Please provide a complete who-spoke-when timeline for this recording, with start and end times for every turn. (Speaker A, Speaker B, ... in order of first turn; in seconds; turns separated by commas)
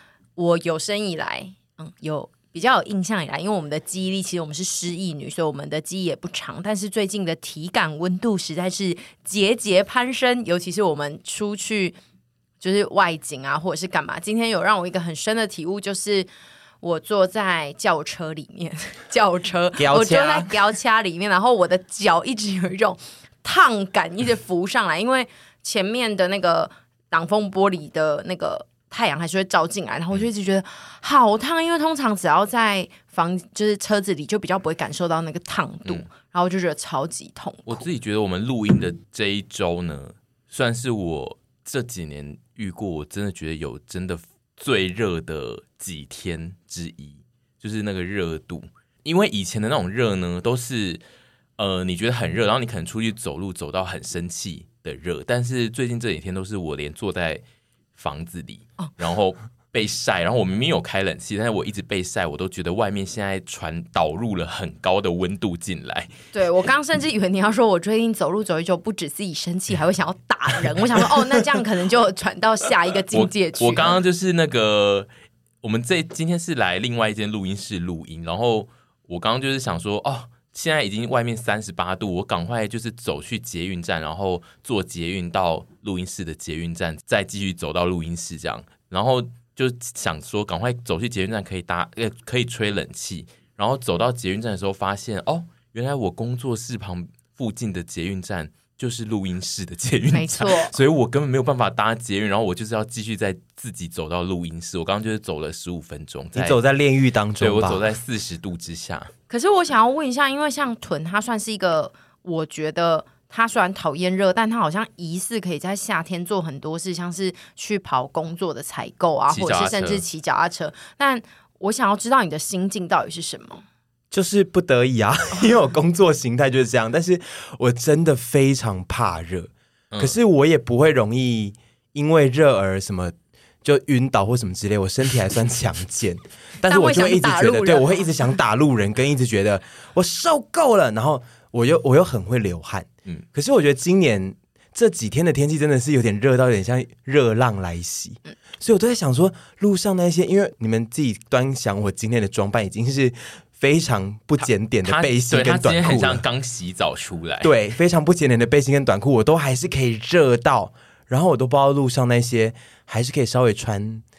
Speaker A: 0.3-12.0, Speaker A: 12.6-16.3, Speaker A: 16.8-37.8, Speaker B: 19.8-20.5, Speaker C: 37.7-51.0, Speaker C: 51.6-57.4, Speaker C: 58.0-66.1, Speaker A: 66.3-74.0, Speaker C: 73.1-75.1, Speaker C: 75.6-106.6, Speaker A: 100.1-100.7, Speaker B: 106.3-107.8, Speaker C: 107.4-109.1, Speaker A: 109.3-123.6, Speaker C: 119.3-120.0, Speaker B: 124.1-156.2, Speaker A: 136.7-138.1, Speaker C: 154.8-157.5, Speaker B: 157.4-164.0